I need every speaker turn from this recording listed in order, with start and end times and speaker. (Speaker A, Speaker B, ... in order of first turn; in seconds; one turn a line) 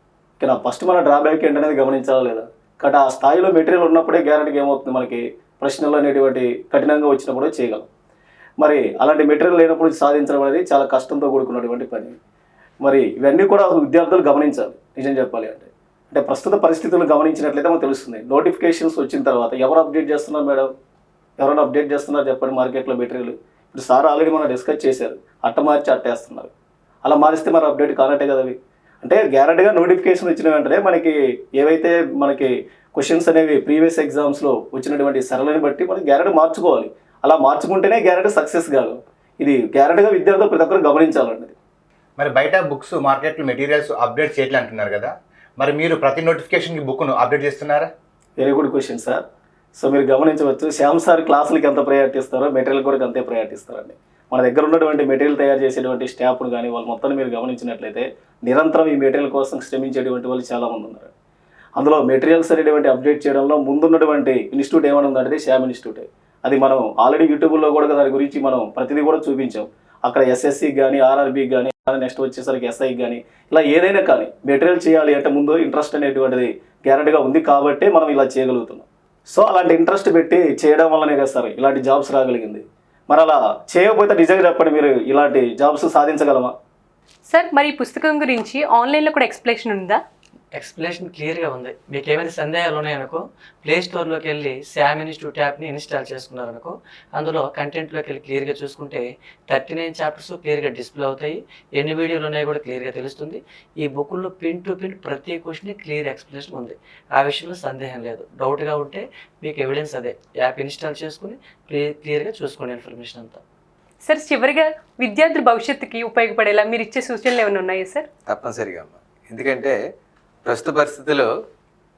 Speaker A: 0.4-7.9
Speaker A: 8.6-12.2
Speaker A: 12.8-20.7
Speaker A: 21.4-26.5
Speaker A: 27.0-41.5
Speaker B: 42.2-47.9
Speaker A: 48.4-49.2
Speaker A: 49.8-61.1
Speaker A: 61.8-86.5
Speaker C: 87.3-90.0
Speaker D: 90.5-113.4
Speaker C: 114.0-118.1
Speaker E: 118.2-119.8
Speaker E: 120.4-121.3